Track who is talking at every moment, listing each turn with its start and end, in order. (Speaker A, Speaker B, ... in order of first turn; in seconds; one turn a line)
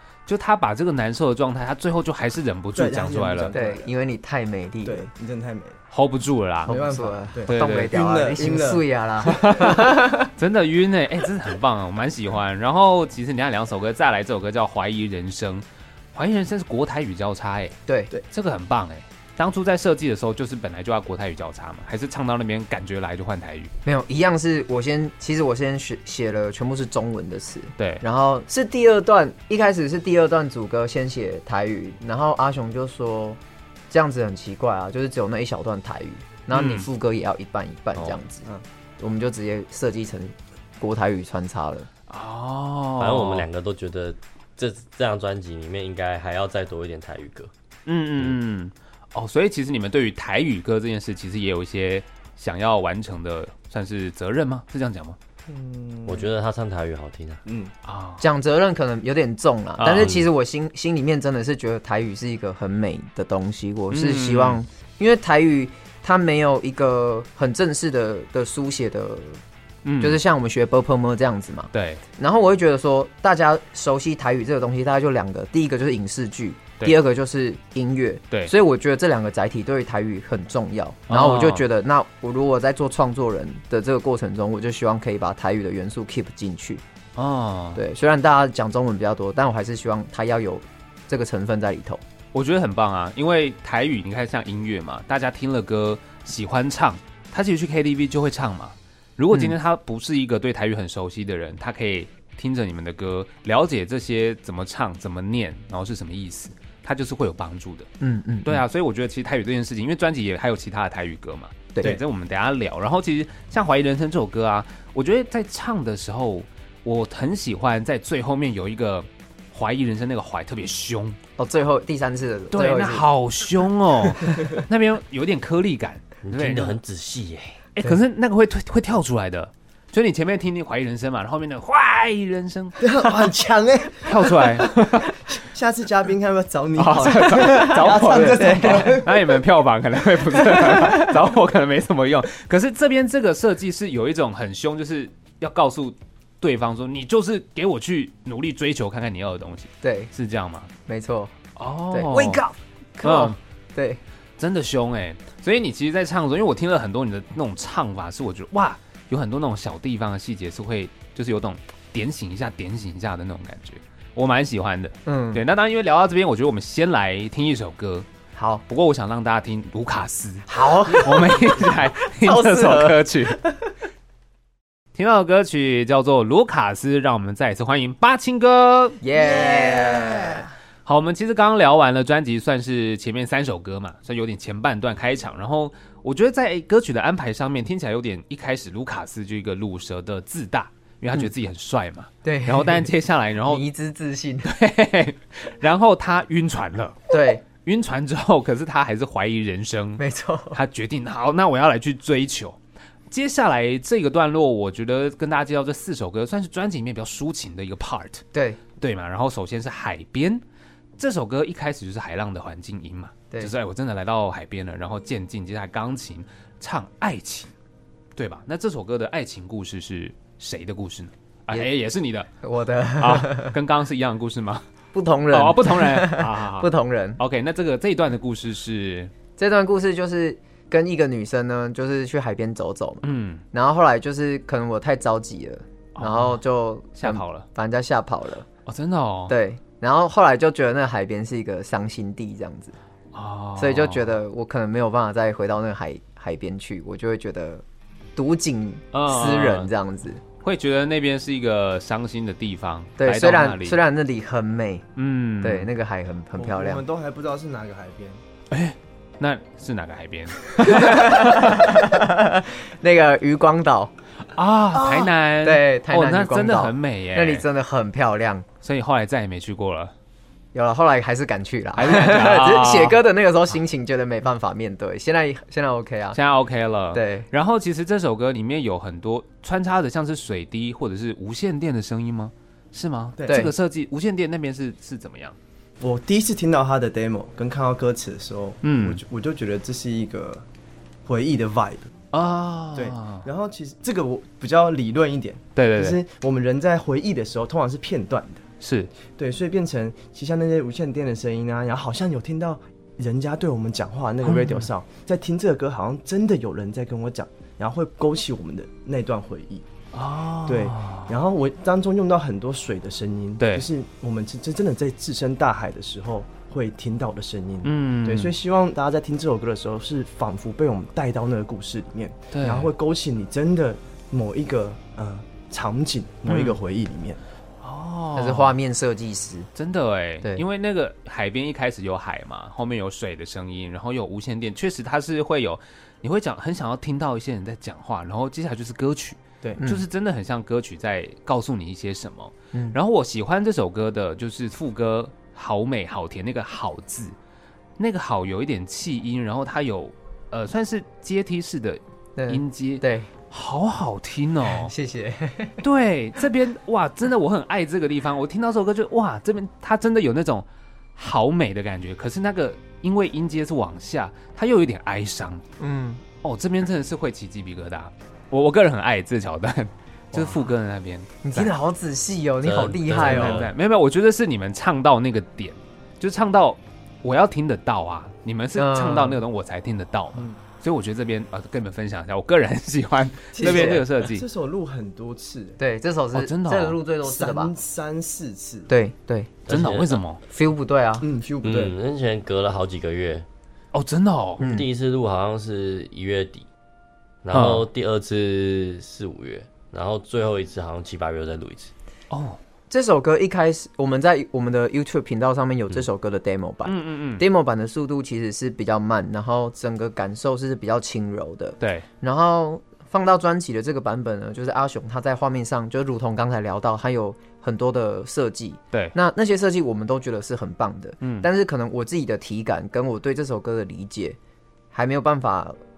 Speaker A: 0.3-3.5
Speaker B: 2.8-3.9
Speaker C: 3.5-5.1
Speaker B: 4.8-5.8
Speaker A: 5.9-6.8
Speaker B: 6.7-9.6
Speaker C: 6.7-10.3
Speaker A: 7.5-7.9
Speaker A: 9.2-17.8
Speaker A: 18.3-23.7
Speaker C: 23.9-33.4
Speaker A: 27.8-28.0
Speaker C: 33.9-38.5
Speaker A: 36.5-36.9
Speaker C: 39.0-41.9
Speaker A: 42.1-43.5
Speaker D: 43.0-47.5
Speaker A: 47.9-55.2
Speaker B: 55.5-56.3
Speaker D: 56.1-57.4
Speaker B: 57.5-57.7
Speaker A: 57.9-58.2
Speaker C: 58.2-69.4
Speaker A: 59.8-60.2
Speaker D: 60.0-60.3
Speaker A: 63.9-64.6
Speaker A: 69.8-70.2
Speaker C: 70.0-86.8
Speaker A: 71.7-72.0
Speaker A: 81.1-81.6
Speaker A: 87.2-87.8
Speaker C: 87.8-92.0
Speaker A: 92.3-107.9
Speaker C: 99.3-99.6
Speaker C: 108.0-108.7
Speaker A: 108.5-121.2
Speaker C: 121.4-123.0
Speaker A: 122.5-126.8
Speaker D: 126.2-127.6
Speaker A: 127.8-133.3
Speaker B: 132.8-139.3
Speaker A: 134.0-135.1
Speaker A: 136.8-150.7
Speaker C: 137.3-139.1
Speaker C: 140.4-141.1
Speaker C: 149.8-150.1
Speaker C: 150.9-151.3
Speaker A: 151.6-152.4
Speaker C: 151.9-154.0
Speaker A: 153.0-153.4
Speaker A: 154.4-168.1
Speaker C: 165.1-165.4
Speaker C: 168.3-168.6
Speaker A: 168.7-173.4
Speaker C: 170.5-173.7
Speaker A: 174.9-193.6
Speaker C: 179.0-180.5
Speaker C: 192.2-192.9
Speaker C: 193.5-194.5
Speaker A: 194.4-200.0
Speaker C: 197.1-197.4
Speaker C: 200.0-200.6
Speaker A: 200.5-202.6
Speaker A: 203.1-208.2
Speaker C: 208.3-208.6
Speaker A: 208.8-210.4
Speaker A: 211.0-217.5
Speaker A: 218.2-222.3
Speaker C: 222.4-223.6
Speaker A: 223.0-224.7
Speaker C: 224.9-227.2
Speaker A: 225.3-229.1
Speaker C: 229.4-238.5
Speaker A: 233.0-233.4
Speaker A: 236.0-236.4
Speaker A: 236.9-237.5
Speaker A: 238.7-239.3
Speaker C: 239.3-242.8
Speaker A: 243.1-244.1
Speaker C: 243.6-247.6
Speaker C: 248.2-250.2
Speaker A: 248.9-249.7
Speaker A: 250.4-253.8
Speaker C: 253.0-254.8
Speaker A: 255.0-255.7
Speaker C: 255.4-256.8
Speaker B: 256.4-258.2
Speaker A: 258.5-261.9
Speaker C: 260.6-263.9
Speaker A: 264.3-267.4
Speaker B: 264.8-265.1
Speaker C: 265.4-268.5
Speaker A: 268.6-269.9
Speaker C: 270.5-276.2
Speaker A: 271.8-273.0
Speaker A: 276.1-285.4
Speaker C: 276.9-277.3
Speaker B: 283.2-283.4
Speaker C: 283.3-283.5
Speaker B: 285.8-290.4
Speaker A: 288.6-289.0
Speaker B: 291.1-291.9
Speaker A: 292.1-293.3
Speaker B: 292.8-298.4
Speaker A: 295.6-296.0
Speaker A: 298.6-298.9
Speaker B: 299.2-309.6
Speaker A: 304.2-304.7
Speaker A: 309.9-311.2
Speaker B: 310.5-327.2
Speaker A: 313.4-313.7
Speaker A: 317.6-318.4
Speaker A: 322.3-322.7
Speaker A: 326.3-326.6
Speaker A: 327.6-328.6
Speaker C: 328.2-329.5
Speaker A: 329.6-347.2
Speaker C: 339.6-339.8
Speaker A: 347.8-354.7
Speaker C: 352.2-353.1
Speaker C: 354.5-355.6
Speaker A: 355.6-360.4
Speaker A: 361.0-365.4
Speaker C: 365.6-366.0
Speaker A: 366.2-371.5
Speaker C: 370.1-370.5
Speaker C: 371.2-373.5
Speaker D: 372.4-373.5
Speaker A: 372.9-384.3
Speaker C: 378.6-379.2
Speaker B: 383.4-385.6
Speaker C: 383.4-383.9
Speaker C: 385.6-387.5
Speaker A: 386.1-386.8
Speaker B: 387.0-388.7
Speaker C: 388.7-389.3
Speaker D: 389.5-390.0
Speaker A: 389.5-390.2
Speaker C: 390.3-391.1
Speaker B: 391.0-391.7
Speaker D: 391.4-393.3
Speaker A: 393.7-394.4
Speaker C: 394.4-394.7
Speaker D: 394.4-396.5
Speaker D: 397.2-401.7
Speaker A: 397.3-397.7
Speaker A: 402.1-402.4
Speaker C: 402.7-424.2
Speaker A: 406.6-407.2
Speaker A: 411.6-411.9
Speaker A: 421.0-421.3
Speaker C: 424.7-425.6